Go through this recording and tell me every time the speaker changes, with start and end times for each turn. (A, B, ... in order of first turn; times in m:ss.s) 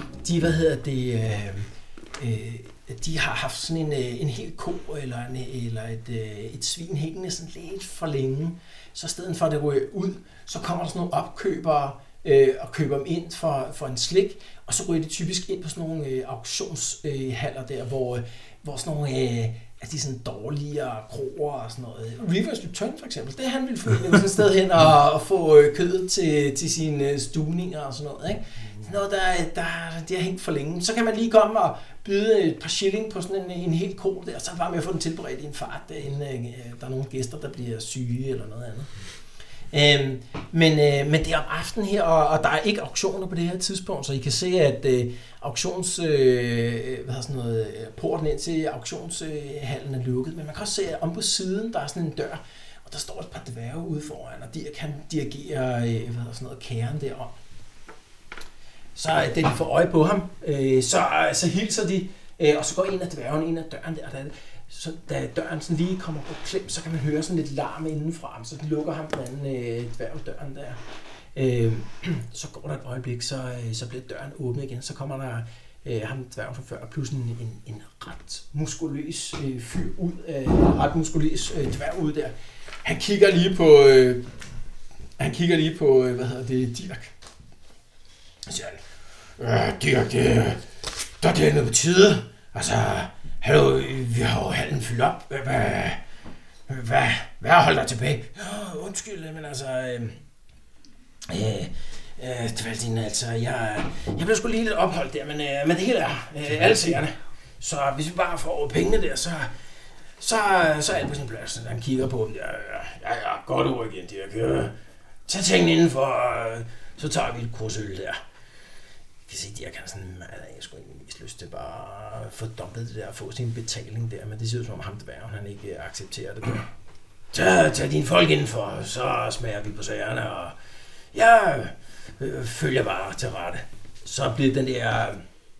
0:00.2-0:38.9 A
0:39.7-0:57.3 A
0:59.0-1:10.8 A
1:11.3-1:24.3 A
1:25.2-1:27.1 A
1:28.4-1:28.8 A
1:29.4-1:30.6 A
1:31.2-1:36.0 A
1:36.7-1:40.2 A
1:41.3-1:49.5 A
1:50.2-1:54.7 A
1:55.3-1:58.2 A
1:59.3-2:06.7 A
2:07.3-2:10.6 A
2:11.1-2:15.2 A